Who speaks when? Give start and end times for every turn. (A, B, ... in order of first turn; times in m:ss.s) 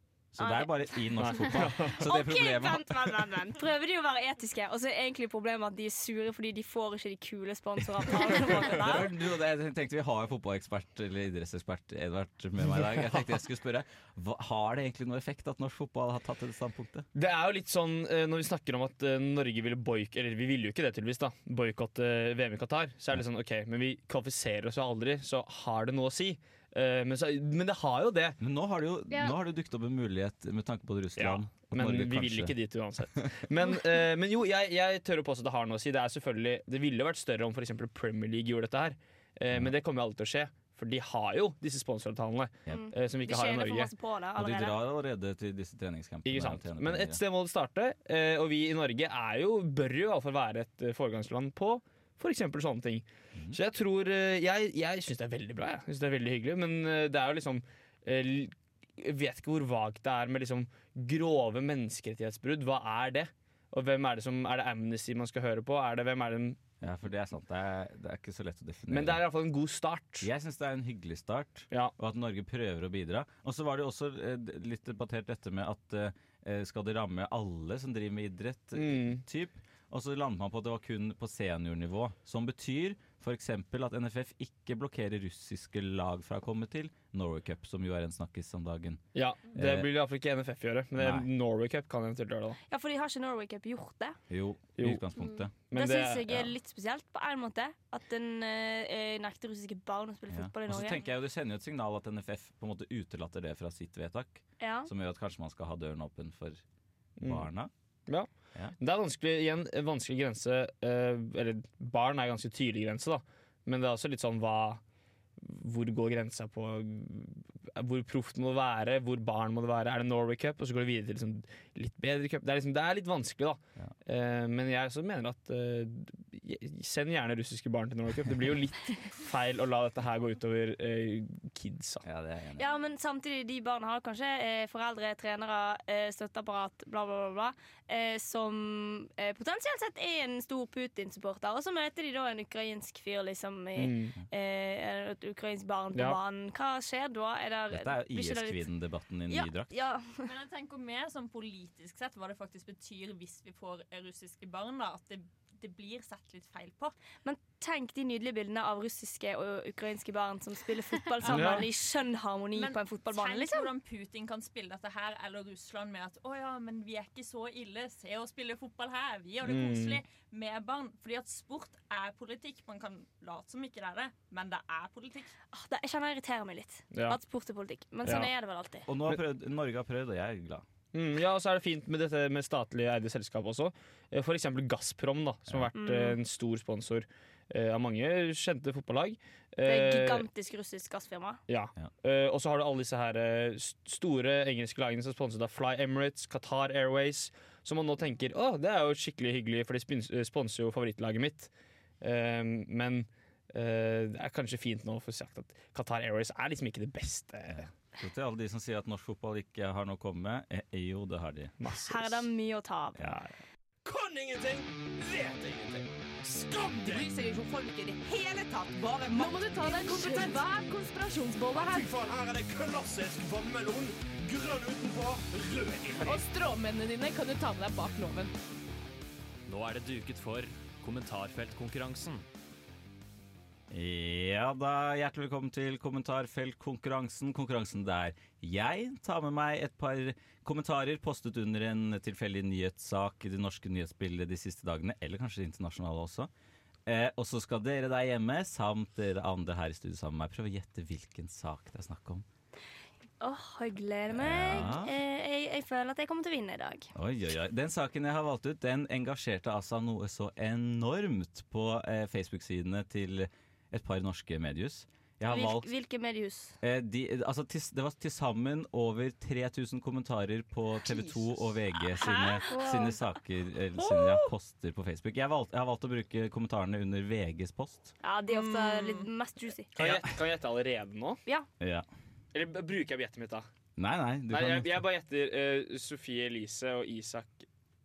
0:00.3-0:03.4 A
0:00.4-0:00.7 B
0:01.2-0:02.0 C
0:01.9-0:09.1 B
0:08.6-0:17.1 A
0:17.2-0:28.4 C
0:28.4-0:32.5 A
0:31.2-0:43.9 C
0:42.7-0:44.8 B
0:44.4-0:47.2 A
0:46.3-1:06.6 C
1:06.8-1:09.2 A
1:08.9-1:10.3 C
1:10.2-1:29.9 A
1:18.8-1:19.2 C
1:29.1-1:32.6 C
1:31.0-1:31.3 A
1:32.7-1:34.2 B
1:34.3-1:35.5 A
1:34.8-1:35.1 C
1:35.6-1:36.3 C
1:35.7-1:41.0 B
1:40.3-1:46.6 A
1:44.6-1:44.9 B
1:47.2-1:47.5 C
1:47.2-1:47.7 A
1:48.8-1:54.8 C
1:55.4-2:12.0 C
2:12.0-2:12.7 A
2:12.6-2:28.7 B
2:23.8-2:24.2 C
2:25.9-2:26.2 C
2:27.7-2:29.8 A
2:29.3-2:30.3 B
2:30.2-2:36.9 D
2:37.2-2:43.7 B
2:41.2-2:41.7 D
2:41.2-2:41.7 C
2:42.5-2:55.3 D
2:49.4-2:50.0 C
2:55.5-2:58.9 B
2:56.9-2:57.2 C
2:58.9-3:00.6 A
3:00.9-3:10.2 C
3:05.7-3:06.2 B
3:09.6-3:11.4 B
3:11.5-3:27.7 C
3:27.5-3:31.5 A
3:31.6-3:32.3 C
3:31.9-3:33.0 B
3:33.8-3:37.2 E
3:36.8-3:41.9 F
3:41.6-3:46.2 E
3:46.0-3:48.3 F
3:49.5-3:52.2 G
3:53.7-4:06.3 A
4:06.9-4:12.2 A
4:13.2-4:16.9 B
4:14.1-4:14.9 A
4:17.0-4:25.7 A
4:25.3-4:26.6 B
4:26.6-4:37.9 A
4:32.0-4:32.8 B
4:38.0-4:39.7 B
4:38.3-4:39.1 D
4:39.8-4:41.2 C
4:39.8-4:40.2 A
4:41.6-4:41.9 A
4:42.3-4:43.5 C
4:43.8-4:44.8 A
4:44.3-4:47.5 C